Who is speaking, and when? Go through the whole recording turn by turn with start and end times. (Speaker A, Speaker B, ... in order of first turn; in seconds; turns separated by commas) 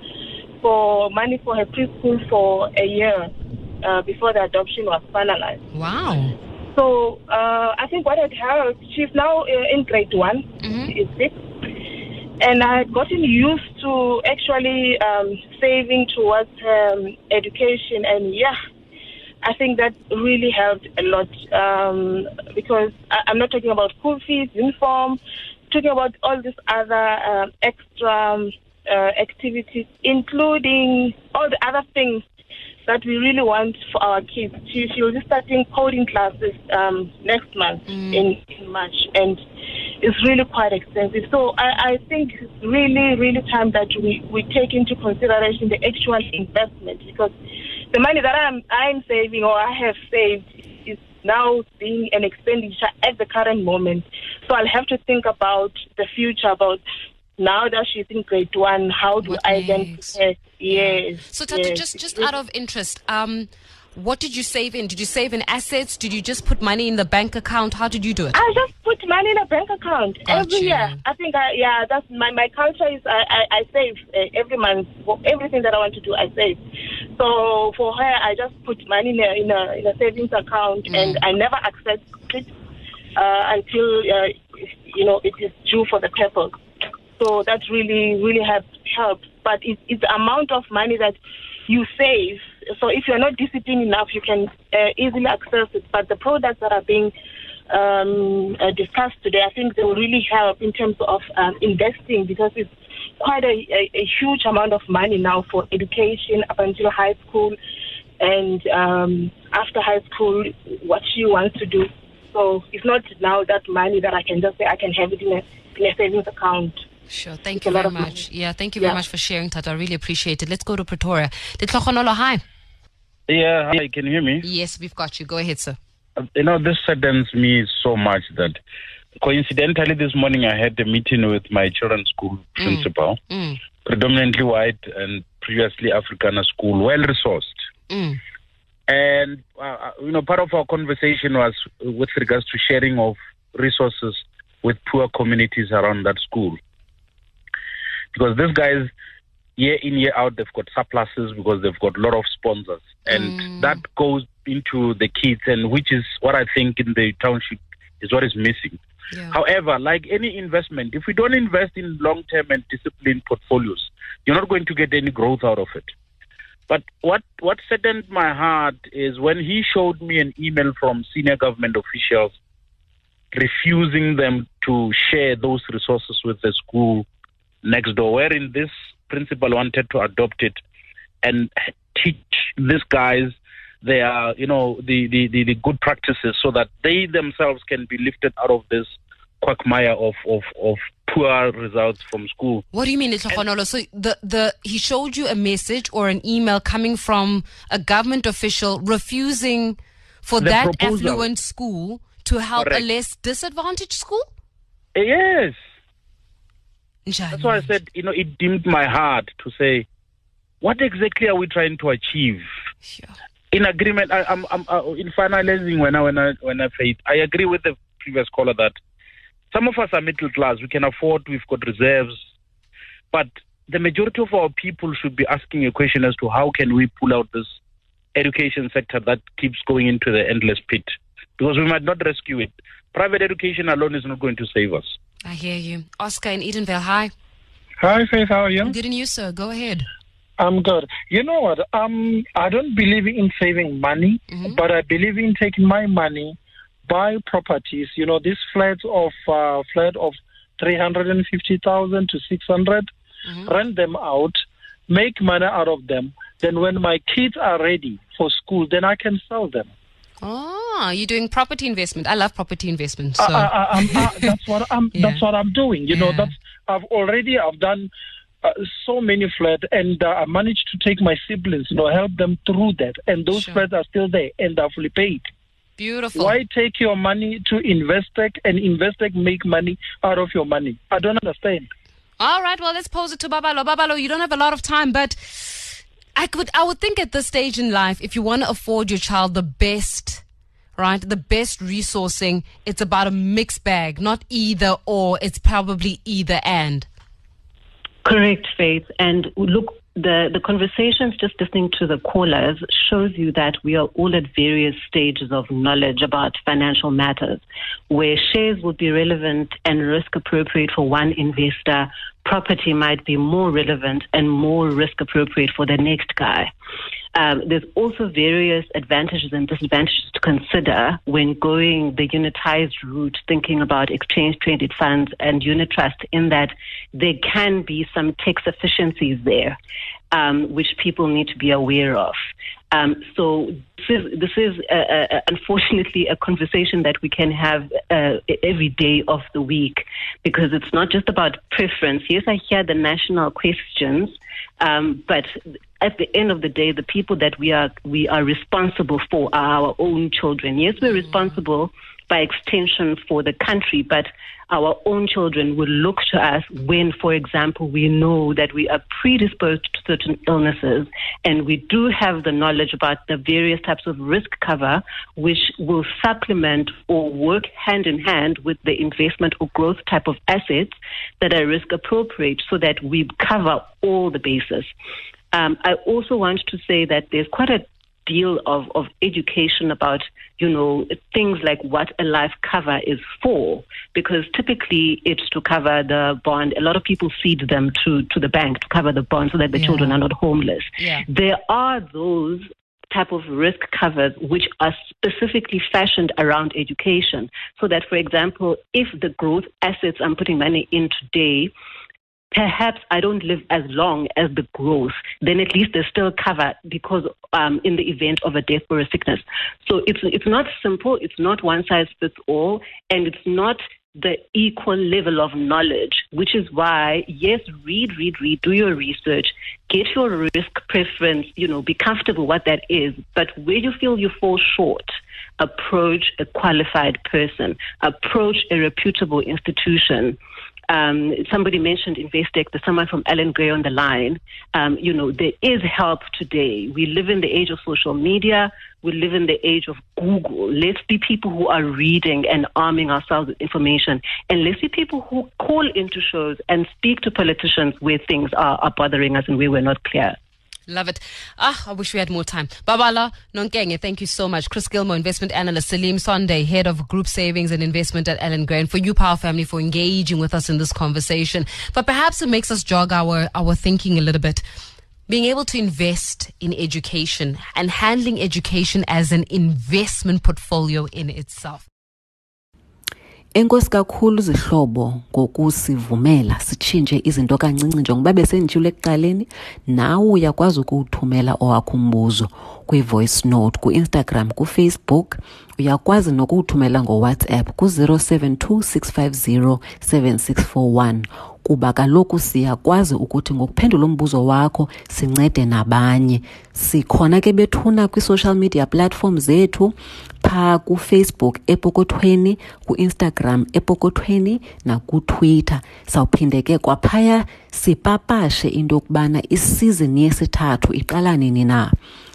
Speaker A: 0.6-5.6, Speaker B: 5.7-6.3, Speaker A: 6.7-11.4, Speaker B: 10.6-10.9, Speaker A: 12.4-18.6, Speaker A: 19.4-32.2, Speaker A: 32.9-39.4, Speaker B: 37.9-38.2, Speaker A: 40.0-47.3, Speaker A: 47.9-56.8, Speaker A: 57.4-62.3, Speaker B: 59.2-68.3, Speaker A: 68.3-76.6, Speaker B: 70.2-71.0, Speaker A: 77.2-82.5, Speaker B: 80.9-81.2, Speaker A: 83.2-86.5, Speaker A: 87.2-91.2, Speaker A: 91.7-97.1, Speaker A: 97.7-107.5, Speaker A: 108.2-116.8, Speaker B: 117.1-122.4, Speaker A: 117.6-118.2, Speaker C: 123.3-124.4, Speaker B: 124.4-125.8, Speaker C: 126.3-128.6, Speaker C: 129.2-133.2, Speaker B: 132.6-133.6, Speaker C: 133.8-137.6, Speaker B: 137.9-138.2, Speaker C: 138.9-146.6, Speaker C: 148.1-148.9, Speaker C: 149.6-158.8, Speaker B: 153.1-153.8, Speaker C: 159.3-165.9, Speaker C: 166.7-172.3, Speaker C: 173.3-177.1, Speaker C: 177.6-180.6, Speaker C: 181.2-192.6, Speaker B: 192.7-204.3, Speaker C: 200.4-201.3, Speaker C: 202.6-202.9, Speaker C: 204.9-205.6, Speaker B: 207.1-207.7, Speaker C: 207.3-209.8, Speaker C: 210.6-212.4, Speaker C: 213.5-218.7, Speaker C: 219.5-222.2, Speaker C: 223.1-227.6, Speaker C: 228.1-234.9, Speaker B: 235.2-237.1, Speaker D: 237.8-238.7, Speaker B: 238.6-239.9, Speaker D: 240.4-252.9, Speaker B: 244.3-244.6, Speaker D: 253.4-259.7, Speaker B: 260.2-264.3, Speaker D: 263.2-267.9, Speaker B: 264.9-265.2, Speaker B: 265.9-266.3, Speaker D: 268.4-275.3, Speaker B: 273.3-273.6, Speaker B: 275.8-276.4, Speaker D: 276.1-281.7, Speaker B: 282.2-290.2, Speaker B: 290.8-296.9, Speaker E: 298.0-316.5, Speaker E: 317.1-329.6, Speaker E: 330.1-332.2, Speaker E: 332.7-374.7, Speaker E: 375.3-401.5, Speaker B: 389.5-390.0, Speaker B: 390.8-391.0, Speaker E: 402.3-430.2, Speaker E: 430.7-450.2, Speaker B: 450.7-464.4, Speaker B: 465.1-471.6, Speaker F: 473.3-511.7